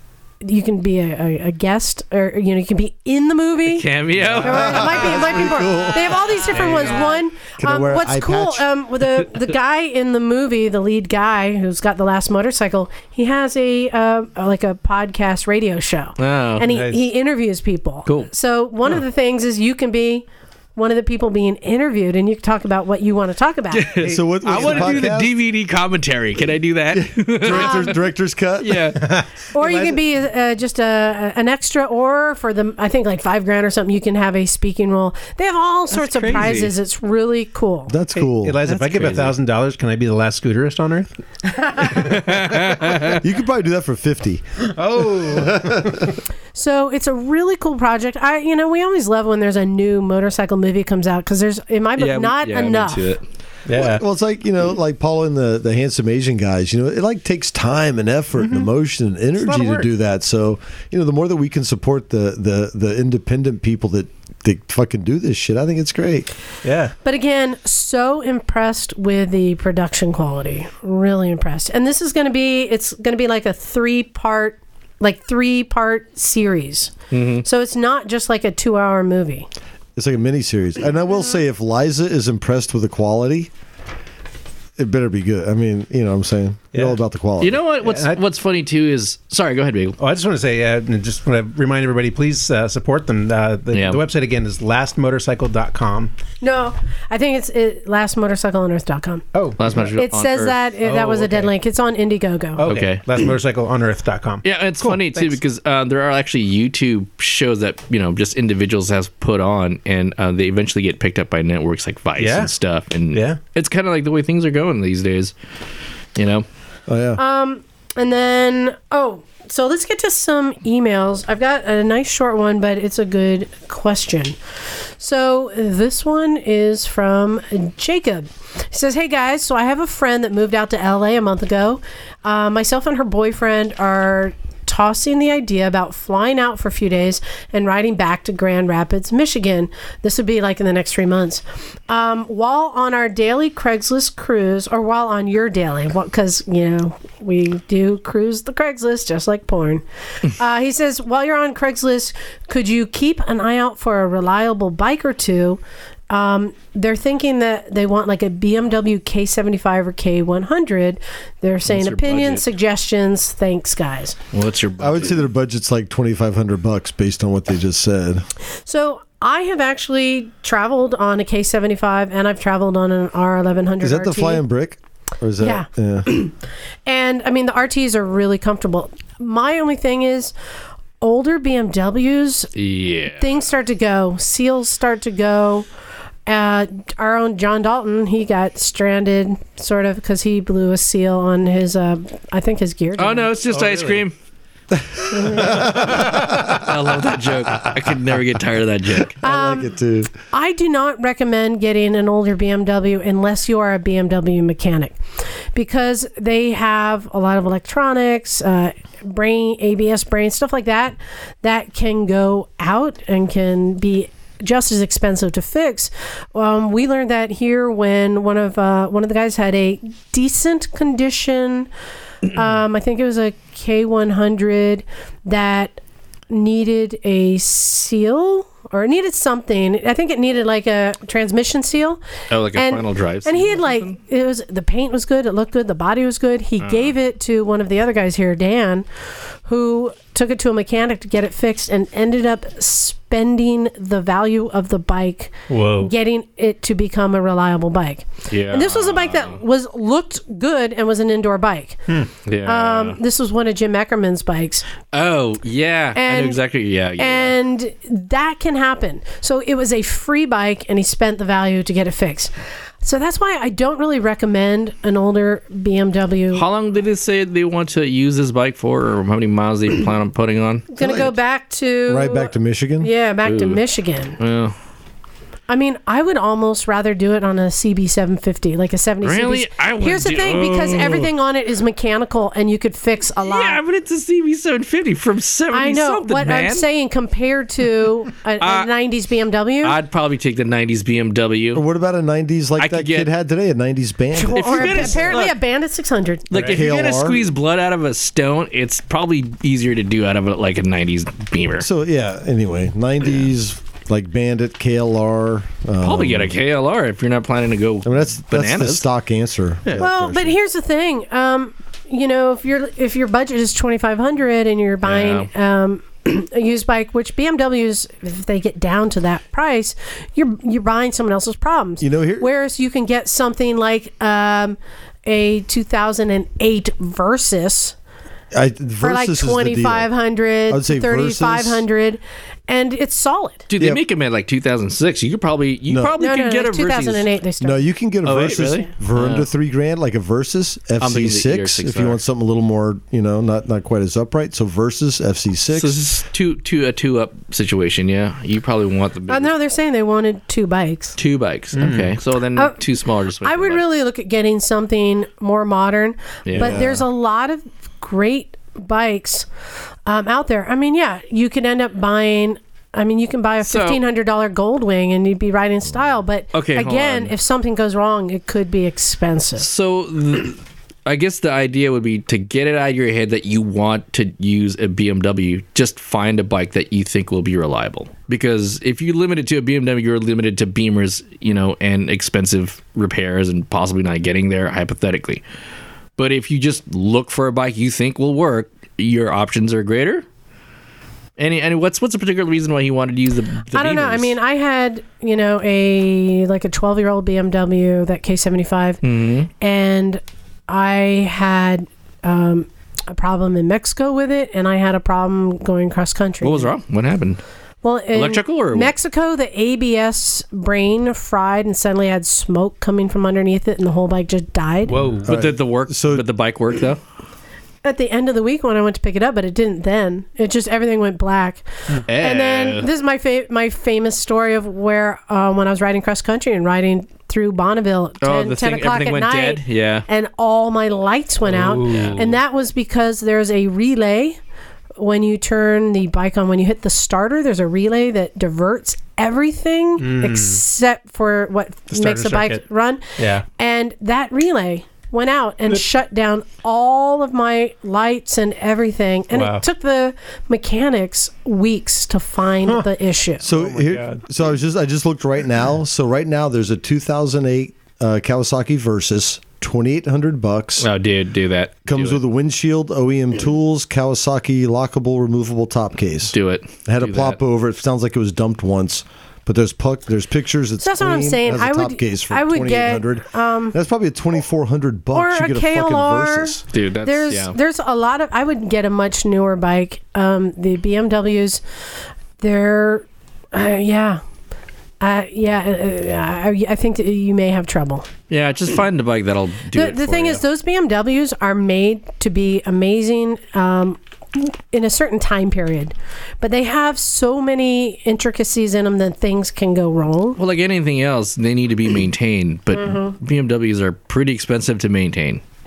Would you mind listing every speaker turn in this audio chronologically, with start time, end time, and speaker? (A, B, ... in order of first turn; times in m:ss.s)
0:00.4-0:20.2 A
0:03.7-0:05.6 B
0:04.1-0:04.5 C
0:04.2-0:06.2 D
0:06.5-0:07.1 C
0:06.5-0:07.1 B
0:07.6-0:08.7 D
0:16.2-0:16.6 B
0:16.6-0:17.0 C
0:18.0-0:18.3 B
0:20.8-0:23.9 A
0:23.7-0:28.0 B
0:24.0-0:25.2 C
0:24.0-0:25.3 D
0:26.9-0:28.9 D
0:27.4-0:27.9 A
0:28.6-0:29.0 B
0:29.0-0:30.0 C
0:29.5-0:37.9 A
0:35.9-0:36.7 B
0:37.9-0:38.6 D
0:38.1-0:41.1 C
0:38.6-0:39.3 B
0:41.8-0:42.4 C
0:42.0-0:43.2 B
0:43.1-0:44.4 D
0:44.7-0:46.1 C
0:45.1-0:46.0 D
0:46.5-0:53.0 A
0:52.0-0:53.2 B
0:53.7-0:54.0 C
0:53.7-1:06.3 D
0:58.4-0:58.7 C
0:59.4-0:59.8 C
1:06.6-1:06.9 C
1:07.0-1:19.5 A
1:17.1-1:17.4 B
1:20.0-1:23.5 D
1:24.8-1:27.6 D
1:27.4-1:30.0 B
1:27.8-1:28.2 C
1:30.0-1:36.1 C
1:33.7-1:34.0 B
1:36.4-1:39.2 A
1:39.3-1:39.9 C
1:39.6-1:40.6 B
1:40.0-1:42.6 A
1:40.8-1:41.5 C
1:42.6-1:45.4 C
1:42.6-1:43.0 B
1:44.4-1:55.3 B
1:52.2-1:52.5 C
1:53.1-1:53.4 C
1:56.2-1:56.4 B
1:56.9-1:57.2 D
1:57.2-2:04.4 A
2:05.0-2:44.2 A
2:41.7-2:42.4 B
2:44.3-2:45.2 B
2:44.8-2:48.2 D
2:48.6-2:54.4 A
2:53.8-2:56.1 D
2:55.4-2:56.3 A
2:56.9-3:00.3 A
3:01.0-3:02.5 A
3:02.5-3:03.2 B
3:03.2-3:05.6 A
3:06.3-3:13.3 A
3:13.0-3:14.1 B
3:13.5-3:14.0 C
3:15.1-3:15.5 A
3:15.2-3:16.5 D
3:15.5-3:16.2 C
3:16.6-3:19.2 B
3:19.2-3:20.1 D
3:19.2-3:19.8 A
3:20.3-3:25.0 A
3:25.5-3:41.7 A
3:42.3-3:52.0 A
3:52.3-3:53.9 B
3:52.5-3:58.8 A
3:56.6-3:56.9 B
3:59.4-4:11.9 A
4:05.5-4:05.9 C
4:08.3-4:09.4 B
4:12.2-4:13.0 B
4:12.4-4:14.6 A
4:14.9-4:17.3 B
4:15.9-4:16.4 A
4:17.0-4:22.3 A
4:22.8-4:26.4 A
4:26.3-4:30.6 B
4:30.7-4:34.2 A
4:30.8-4:31.2 D
4:31.9-4:32.9 D
4:33.2-4:33.6 B
4:34.2-4:34.5 B
4:35.5-4:43.6 A
4:39.0-4:41.1 B
4:43.2-4:46.7 B
4:45.5-4:49.8 A
4:48.4-4:48.7 B
4:49.6-4:51.6 B
4:51.5-4:55.1 D
4:52.6-4:53.1 B
4:54.1-4:56.4 A
4:54.3-4:55.4 B
4:56.3-5:01.6 B
4:56.4-4:57.3 D
5:01.6-5:06.4 D
5:05.8-5:08.9 B
5:07.8-5:10.4 D
5:09.8-5:27.7 A
5:14.8-5:15.3 B
5:21.8-5:22.3 D
5:28.3-5:29.9 D
5:28.8-5:33.5 A
5:30.5-5:31.6 D
5:33.5-5:37.1 B
5:33.6-5:33.8 D
5:35.7-5:35.9 D
5:36.0-5:37.6 A
5:37.4-5:45.8 D
5:38.0-5:39.3 B
5:40.8-5:42.0 B
5:45.5-5:49.3 B
5:49.1-5:51.0 A
5:51.0-5:53.6 B
5:51.5-5:52.0 C
5:52.3-5:52.6 A
5:53.2-5:59.3 A
5:56.2-5:56.7 B
5:56.3-5:56.8 D
5:59.8-6:09.5 A
6:03.4-6:03.8 B
6:06.3-6:07.1 B
6:09.4-6:25.2 B
6:26.0-6:30.0 B
6:31.2-6:34.1 B
6:33.5-6:38.8 A
6:38.8-6:39.3 B
6:39.4-6:46.5 A
6:46.2-6:47.2 B
6:47.6-6:54.8 A
6:47.9-6:48.7 B
6:54.6-6:55.2 C
6:55.0-6:56.8 B
6:55.1-6:56.1 D
6:57.6-7:14.2 A
7:01.9-7:02.7 B
7:08.0-7:09.8 B
7:11.3-7:12.2 C
7:11.7-7:12.0 B
7:14.8-7:22.8 A
7:19.8-7:20.4 C
7:21.7-7:22.4 C
7:23.0-7:23.2 C
7:23.4-7:33.2 A
7:29.1-7:29.4 C
7:33.2-7:40.7 D
7:33.3-7:34.0 C
7:40.6-7:42.0 B
7:41.6-7:56.4 D
7:46.1-7:47.2 B
7:50.6-7:53.5 A
7:54.9-8:01.4 A
7:56.5-7:57.3 B
8:02.2-8:04.0 A
8:04.8-8:07.8 A
8:08.1-8:10.2 B
8:09.5-8:20.2 A
8:20.2-8:25.2 B
8:22.6-8:22.9 A